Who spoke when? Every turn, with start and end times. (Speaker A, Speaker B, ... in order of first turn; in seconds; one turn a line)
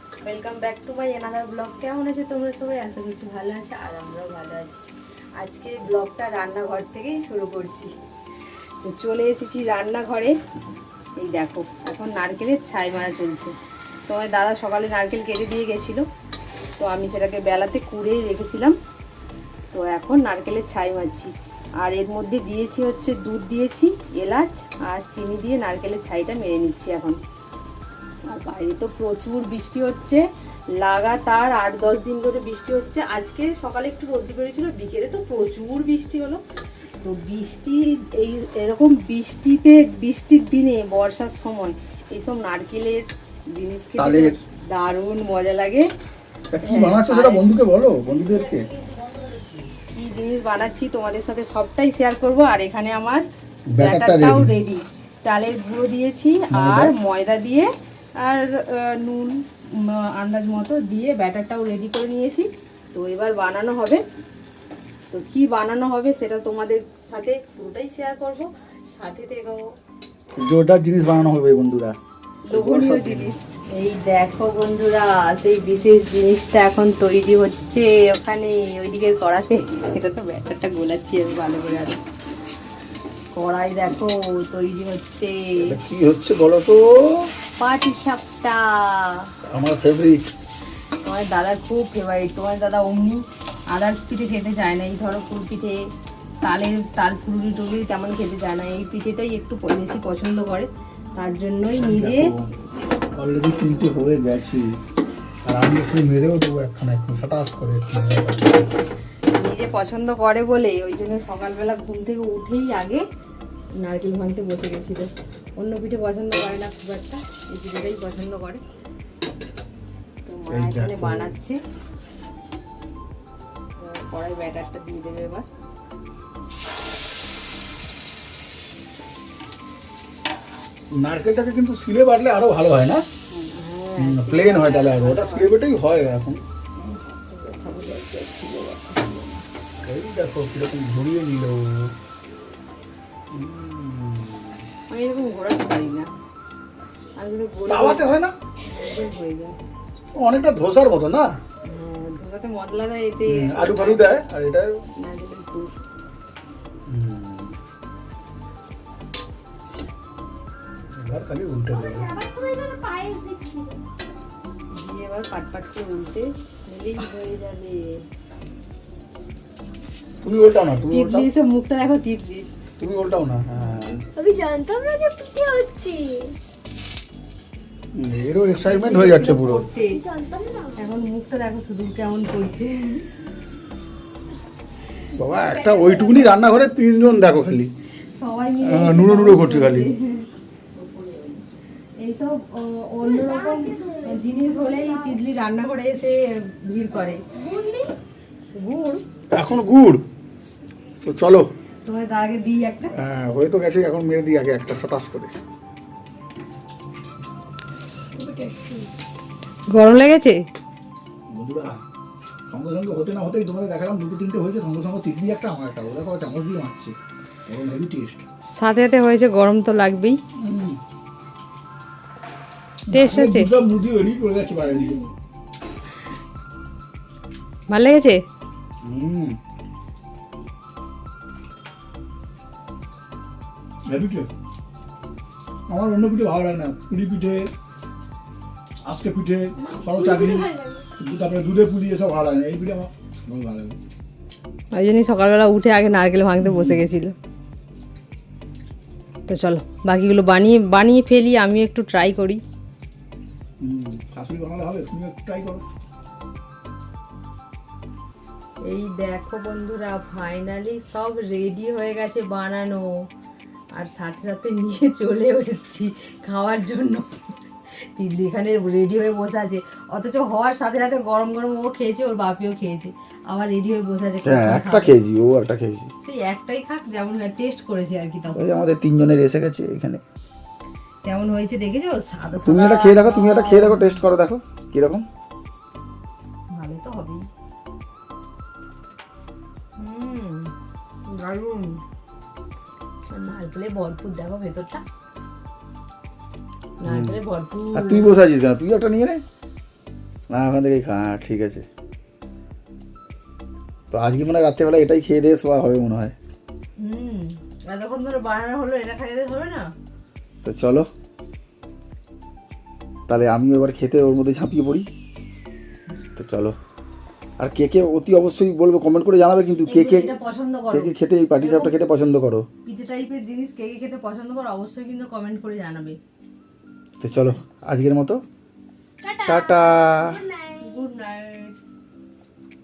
Speaker A: 0.2-4.8
Speaker A: 5.4-7.9
Speaker A: 8.8-10.3
Speaker A: 11.2-13.5
Speaker A: 14.1-16.0
Speaker A: 16.8-18.8
Speaker A: 19.7-27.2
Speaker A: 28.3-30.2
Speaker A: 30.8-36.4
Speaker A: 37.0-45.9
Speaker B: 44.0-44.4
Speaker B: 46.5-48.8
Speaker A: 46.6-47.5
Speaker A: 50.0-53.2
Speaker B: 53.7-54.5
Speaker A: 53.8-57.7
Speaker B: 56.5-56.9
Speaker A: 58.2-64.0
Speaker A: 65.1-69.6
Speaker B: 70.4-72.0
Speaker A: 72.5-82.0
Speaker B: 72.5-73.3
Speaker A: 83.3-85.8
Speaker B: 85.6-87.3
Speaker A: 87.6-89.3
Speaker B: 89.4-90.3
Speaker A: 91.0-95.8
Speaker A: 96.4-102.3
Speaker B: 101.8-102.5
Speaker B: 103.2-104.8
Speaker B: 105.5-108.8
Speaker A: 109.3-113.0
Speaker A: 113.8-118.6
Speaker A: 120.3-121.6
Speaker B: 120.5-121.3
Speaker A: 123.8-125.5
Speaker B: 130.9-133.0
Speaker A: 133.3-135.5
Speaker B: 134.0-136.4
Speaker A: 136.8-139.4
Speaker B: 139.8-141.9
Speaker B: 143.3-144.7
Speaker A: 144.9-146.1
Speaker A: 147.2-148.1
Speaker B: 147.7-148.3
Speaker A: 148.7-149.6
Speaker B: 150.2-151.3
Speaker A: 151.7-154.2
Speaker B: 153.3-154.8
Speaker A: 155.0-155.8
Speaker B: 156.9-157.6
Speaker B: 160.9-162.2
Speaker C: 161.7-163.8
Speaker A: 164.7-168.1
Speaker B: 170.2-171.3
Speaker A: 170.9-172.5
Speaker B: 172.8-174.1
Speaker C: 174.2-176.4
Speaker B: 177.9-179.7
Speaker A: 178.5-180.1
Speaker C: 179.9-180.8
Speaker A: 180.8-183.1
Speaker B: 185.1-187.7
Speaker C: 185.6-186.3
Speaker A: 188.2-190.3
Speaker B: 188.6-189.9
Speaker A: 190.8-191.4
Speaker A: 192.0-197.2
Speaker C: 193.0-194.9
Speaker C: 197.3-197.9
Speaker A: 198.5-199.0
Speaker B: 199.3-200.0
Speaker B: 201.0-201.5
Speaker A: 201.8-202.9
Speaker B: 202.9-205.3
Speaker C: 208.2-208.9
Speaker A: 209.7-210.5
Speaker B: 211.3-211.8
Speaker B: 212.5-217.0
Speaker B: 217.5-218.2
Speaker A: 218.5-220.2
Speaker B: 220.4-220.8
Speaker B: 222.9-225.1
Speaker A: 222.9-223.5
Speaker A: 227.7-228.2
Speaker B: 228.8-229.4
Speaker B: 233.9-234.3
Speaker B: 235.7-237.5
Speaker B: 238.8-243.8
Speaker C: 239.8-240.9
Speaker A: 244.7-247.2
Speaker B: 246.4-246.8
Speaker A: 249.3-252.4
Speaker B: 253.6-255.6
Speaker A: 258.6-263.1
Speaker A: 263.7-267.4
Speaker A: 267.9-275.0
Speaker B: 274.2-275.9
Speaker A: 276.0-278.4
Speaker B: 278.4-280.0
Speaker A: 281.0-284.0
Speaker B: 282.4-285.1
Speaker A: 286.5-287.3
Speaker A: 289.8-290.5
Speaker A: 291.1-291.8
Speaker A: 293.1-294.8
Speaker A: 296.8-298.2
Speaker B: 296.8-297.2
Speaker B: 297.7-299.2
Speaker B: 300.3-301.6
Speaker B: 303.9-306.1
Speaker A: 306.8-309.7
Speaker B: 310.4-310.9
Speaker B: 313.1-314.9
Speaker B: 316.2-316.6
Speaker B: 317.4-320.1
Speaker A: 319.7-321.8
Speaker B: 320.7-322.5
Speaker A: 322.6-326.0
Speaker B: 327.0-328.2
Speaker C: 329.0-330.7
Speaker B: 329.3-330.2
Speaker A: 330.5-331.6